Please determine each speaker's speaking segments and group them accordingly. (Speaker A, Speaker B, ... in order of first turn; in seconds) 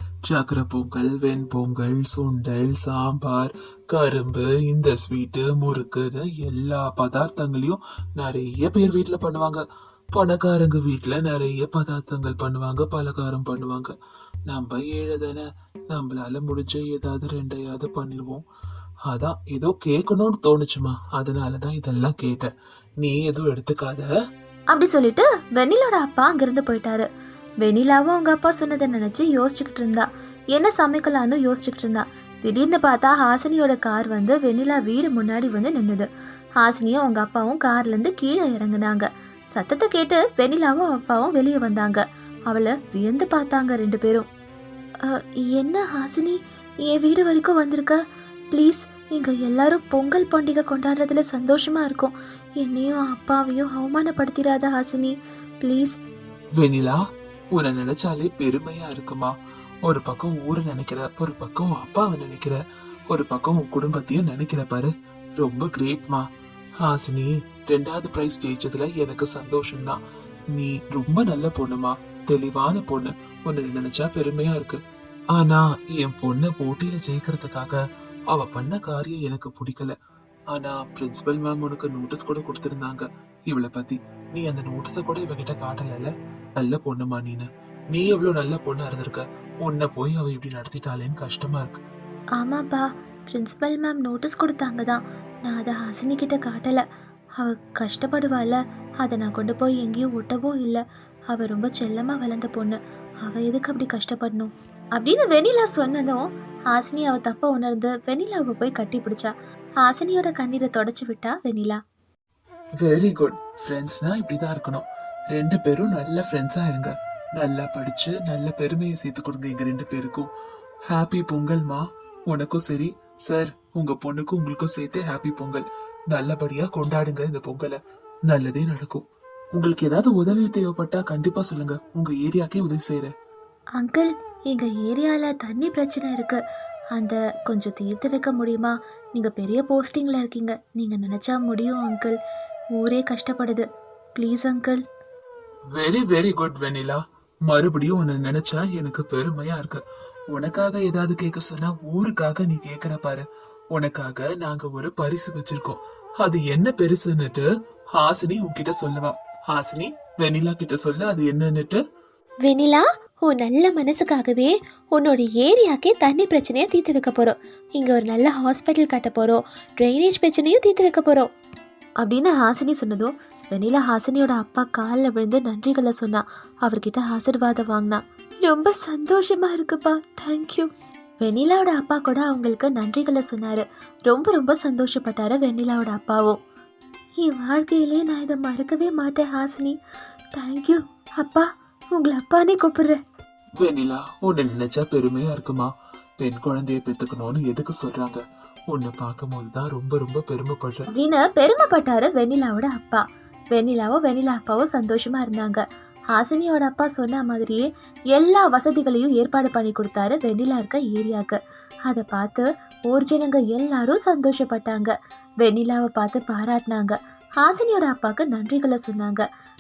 Speaker A: 0.3-9.6, 10.2-13.9, 14.5-18.4, 19.1-22.5, 23.0-24.1, 56.6-57.0, 57.5-59.3, 59.9-62.6, 63.1-66.2, 66.8-70.0, 70.5-74.8, 75.3-80.0, 80.5-91.8, 112.8-120.3, 120.9-129.0, 129.6-133.1, 145.8-161.8, 193.6-200.8
Speaker B: 24.7-27.1, 27.6-36.1, 36.6-44.3, 45.1-48.0, 48.5-56.0, 92.4-96.8, 97.4-111.8, 133.8-136.4, 136.9-142.2, 142.7-144.8, 162.5-171.3, 172.0-180.7, 181.2-186.4, 187.2-189.8, 190.4-193.0, 200.9-219.3